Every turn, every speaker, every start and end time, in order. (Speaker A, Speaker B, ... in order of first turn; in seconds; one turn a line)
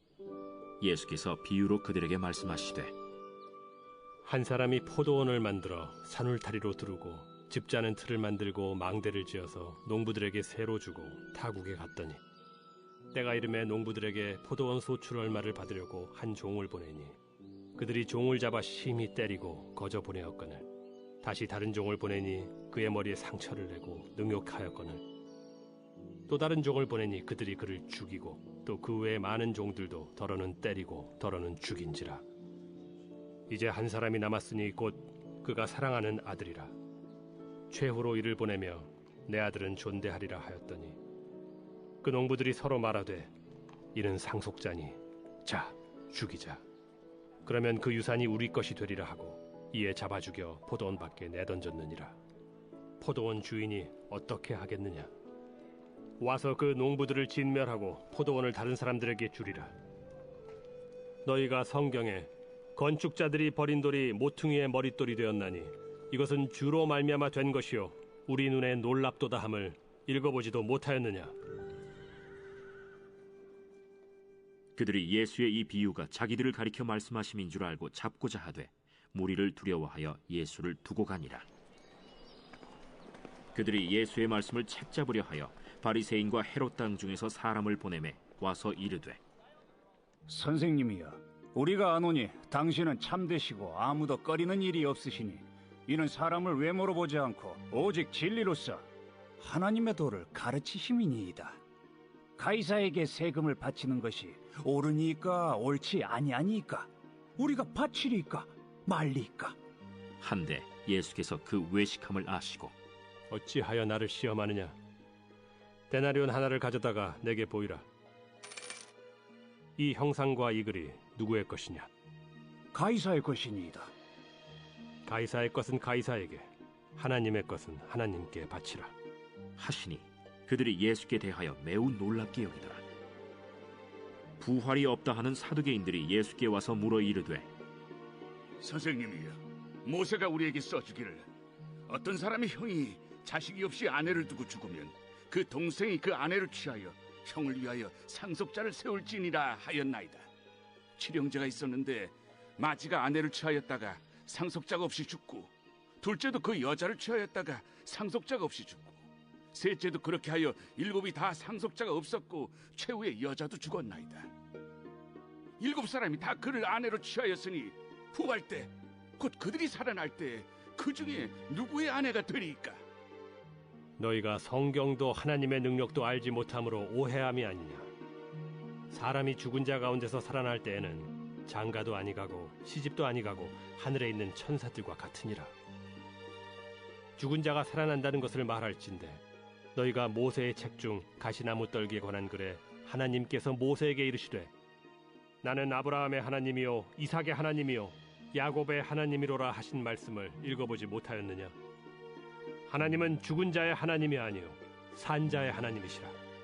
Speaker A: 0.8-2.9
Speaker B: 4.2-12.2
Speaker B: 13.1-17.1
Speaker B: 17.8-20.7
Speaker B: 21.2-25.1
Speaker B: 26.3-32.2
Speaker B: 33.5-36.7
Speaker B: 37.7-41.0
Speaker B: 42.0-43.3
Speaker B: 43.9-46.6
Speaker B: 47.4-52.1
Speaker B: 53.0-55.1
Speaker B: 56.2-59.7
Speaker B: 61.2-71.3
Speaker A: 74.8-81.5
Speaker A: 83.5-89.2
Speaker C: 90.3-98.9
Speaker C: 99.4-101.6
Speaker C: 102.4-109.6
Speaker A: 110.2-112.7
Speaker B: 113.3-114.8
Speaker B: 115.9-117.8
Speaker B: 119.8-121.9
Speaker C: 122.7-123.9
Speaker B: 125.0-128.9
Speaker A: 129.6-132.8
Speaker A: 134.4-137.5
Speaker D: 138.6-141.2
Speaker D: 141.9-150.3
Speaker D: 151.0-159.0
Speaker D: 159.5-164.3
Speaker D: 165.6-172.8
Speaker B: 174.0-177.9
Speaker B: 178.9-185.5
Speaker B: 187.2-189.2
Speaker B: 189.7-194.5
Speaker B: 195.4-201.5
Speaker B: 202.7-206.2